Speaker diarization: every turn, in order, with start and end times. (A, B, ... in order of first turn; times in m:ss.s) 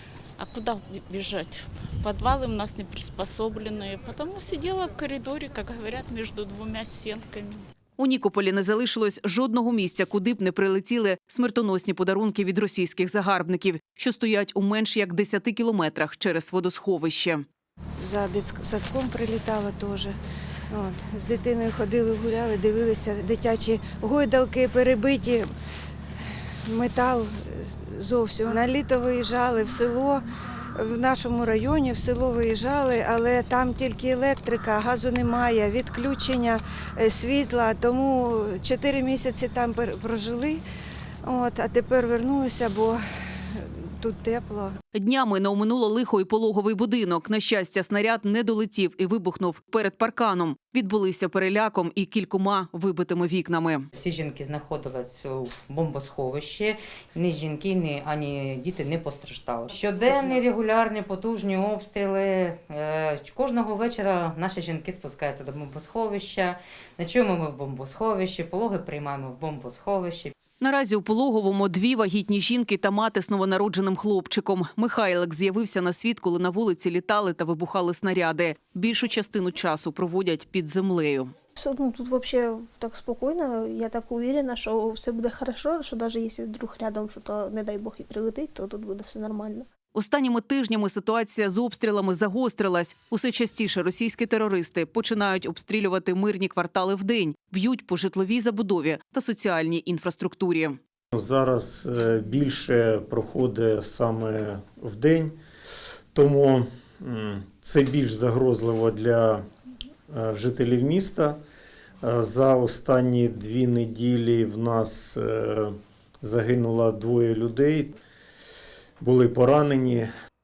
0:00.4-0:07.6 A
0:08.0-0:17.4 B
0:18.0-0:20.1 C
0:20.7-0:25.5 C
0:26.7-0:30.2 C
0:30.8-0:40.6 C
0:41.2-0:43.0 C
0:43.6-0:44.7 C
0:44.9-0:53.9 B
0:53.9-1:10.4 D
1:10.6-1:21.3 B
1:21.6-1:29.7 E
1:29.9-1:40.8 B
1:41.1-1:45.3 F
1:46.1-1:49.4 F
1:50.1-1:51.4 F
1:52.0-1:58.0 F
1:59.0-2:00.1 F